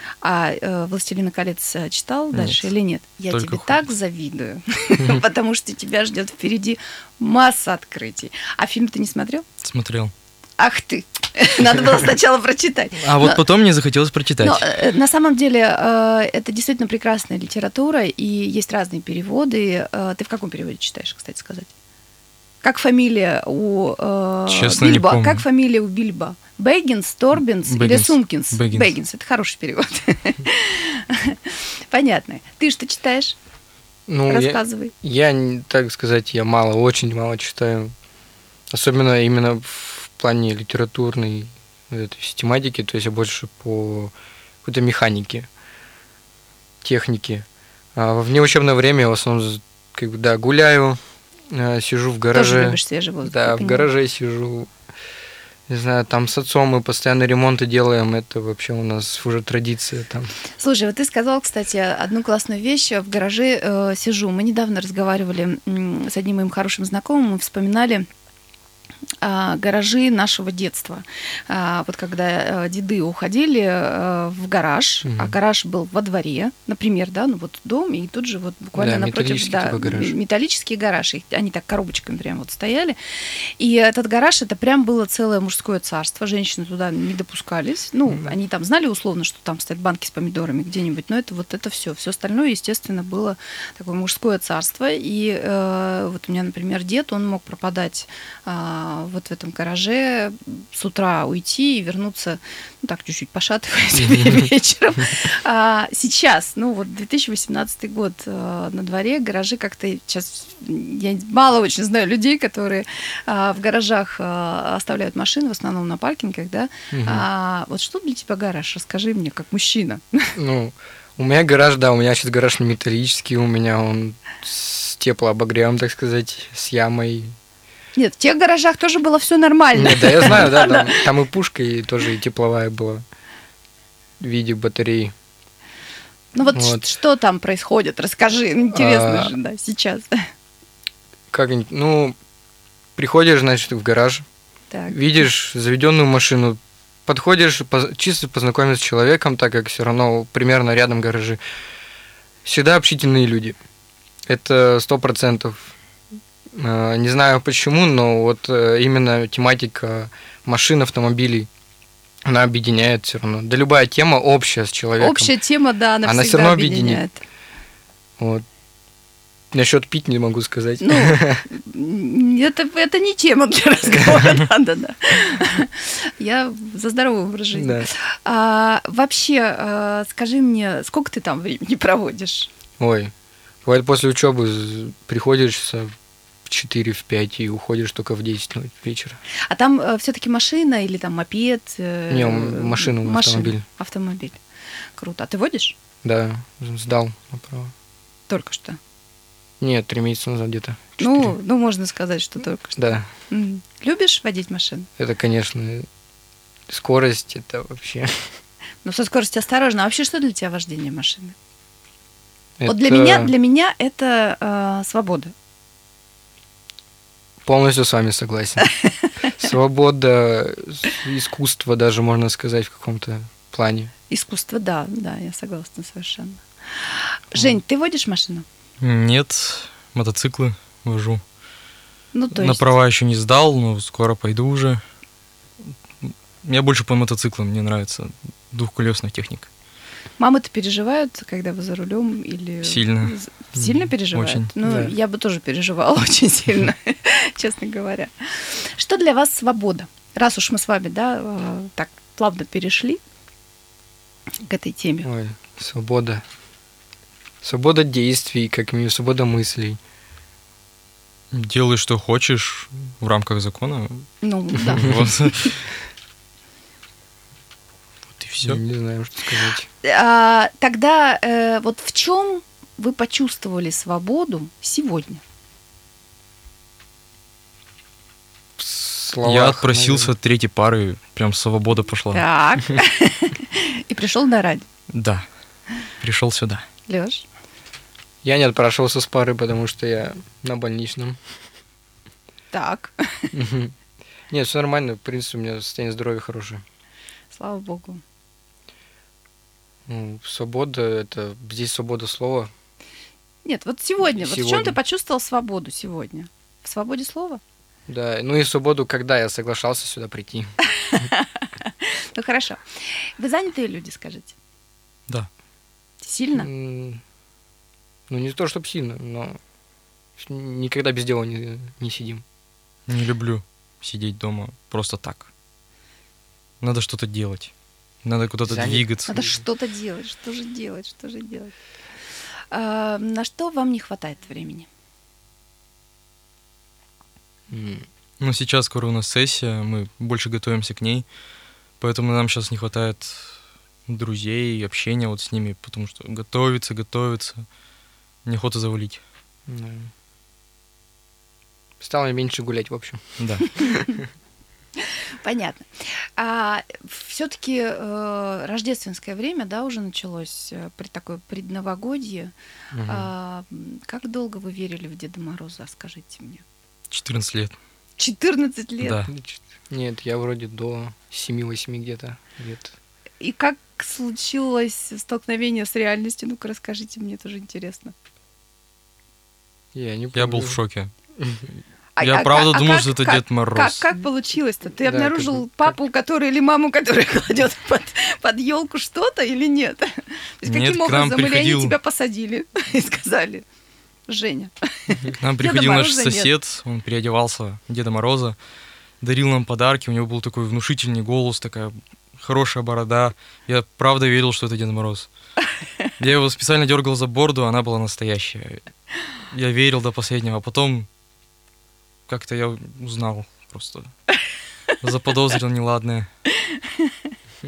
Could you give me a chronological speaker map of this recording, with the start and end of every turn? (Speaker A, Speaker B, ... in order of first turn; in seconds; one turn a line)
Speaker A: 0.2-9.4
Speaker B: 2.3-2.7
Speaker B: 3.3-3.8
Speaker B: 9.6-10.1
Speaker A: 10.6-13.4
Speaker B: 13.0-14.7
Speaker A: 14.4-21.7
Speaker A: 22.6-33.4
Speaker B: 24.5-25.4
Speaker B: 27.6-28.9
Speaker C: 34.1-37.9
Speaker A: 34.3-34.9
Speaker C: 38.7-45.5
Speaker C: 46.8-54.7
Speaker A: 52.3-53.9
Speaker C: 55.7-60.3
Speaker A: 60.6-68.1
Speaker A: 69.2-120.3
Speaker C: 75.0-75.3
Speaker C: 78.8-80.1
Speaker C: 104.0-104.5
Speaker C: 116.9-117.2
Speaker C: 120.3-127.3
Speaker A: 128.0-131.1
Speaker C: 129.7-133.0
Speaker C: 134.2-135.1
Speaker A: 136.3-140.3
Speaker C: 136.5-136.8
Speaker C: 138.7-139.3
Speaker C: 141.3-142.2
Speaker C: 142.9-144.2
Speaker A: 144.7-145.0
Speaker C: 144.9-151.4
Speaker C: 152.4-153.6
Speaker C: 154.3-155.7
Speaker C: 156.5-161.5
Speaker C: 162.2-165.3
Speaker A: 165.0-167.2
Speaker C: 166.0-167.0
Speaker C: 168.2-168.4
Speaker C: 169.5-171.4
Speaker A: 170.8-182.5
Speaker C: 177.5-177.9
Speaker C: 182.8-183.1
Speaker C: 183.6-185.9
Speaker C: 186.4-189.2
Speaker A: 189.4-194.4
Speaker C: 192.1-193.6
Speaker A: 194.9-195.8
Speaker C: 196.0-197.7
Speaker A: 198.3-198.8
Speaker C: 199.6-201.3
Speaker A: 201.0-204.9
Speaker C: 202.8-203.1
Speaker C: 205.0-205.9
Speaker C: 206.7-208.3
Speaker A: 208.8-211.3
Speaker C: 212.6-213.3
Speaker A: 212.7-215.3
Speaker C: 217.4-218.7
Speaker C: 219.3-223.9
Speaker A: 224.1-228.4
Speaker B: 228.8-231.2
Speaker A: 232.1-232.7
Speaker B: 232.3-234.8
Speaker B: 236.0-239.5
Speaker A: 240.2-253.0
Speaker B: 242.6-243.1
Speaker B: 244.1-244.5
Speaker C: 244.6-244.9
Speaker A: 254.4-255.1
Speaker C: 255.0-256.2
Speaker C: 257.4-259.8
Speaker B: 261.3-265.6
Speaker A: 264.2-265.5
Speaker B: 268.1-268.6
Speaker C: 268.4-269.7
Speaker A: 269.8-275.2
Speaker C: 278.6-280.1
Speaker B: 279.2-282.2
Speaker A: 282.1-284.6
Speaker B: 284.9-285.2
Speaker B: 286.0-286.6
Speaker A: 286.9-287.2
Speaker C: 288.2-291.2
Speaker A: 292.5-293.3
Speaker C: 293.3-293.7
Speaker C: 294.3-296.6
Speaker A: 297.3-298.0
Speaker C: 299.9-302.5
Speaker A: 303.4-307.4
Speaker C: 304.0-304.8
Speaker C: 307.9-310.5
Speaker A: 310.6-314.4
Speaker A: 316.0-316.5
Speaker C: 316.3-317.0
Speaker C: 318.1-319.4
Speaker C: 320.2-322.2
Speaker B: 322.9-325.3
Speaker B: 326.6-327.5
Speaker B: 328.0-329.1
Speaker C: 328.4-329.4
Speaker A: 329.1-331.5
Speaker A: 332.5-334.7
Speaker C: 337.5-337.9
Speaker B: 338.2-341.0
Speaker B: 341.8-343.3
Speaker B: 343.9-347.4
Speaker B: 348.2-349.0
Speaker C: 349.5-349.9
Speaker C: 351.8-353.9
Speaker B: 353.2-353.5
Speaker A: 353.6-354.0
Speaker A: 354.8-362.3
Speaker C: 362.7-363.1
Speaker A: 362.8-366.4
Speaker B: 366.9-367.6
Speaker A: 368.0-369.0
Speaker B: 368.8-369.1
Speaker C: 369.1-372.7
Speaker A: 373.2-377.9
Speaker C: 379.7-380.6
Speaker B: 380.1-380.9
Speaker C: 381.2-381.4
Speaker A: 382.0-393.4
Speaker B: 382.0-383.8
Speaker C: 384.8-385.5
Speaker B: 390.4-391.8
Speaker A: 394.1-396.3
Speaker B: 395.2-398.4
Speaker B: 399.0-405.1
Speaker B: 406.0-408.6
Speaker B: 409.3-410.9
Speaker B: 412.1-413.9
Speaker B: 414.8-416.1
Speaker A: 416.3-417.1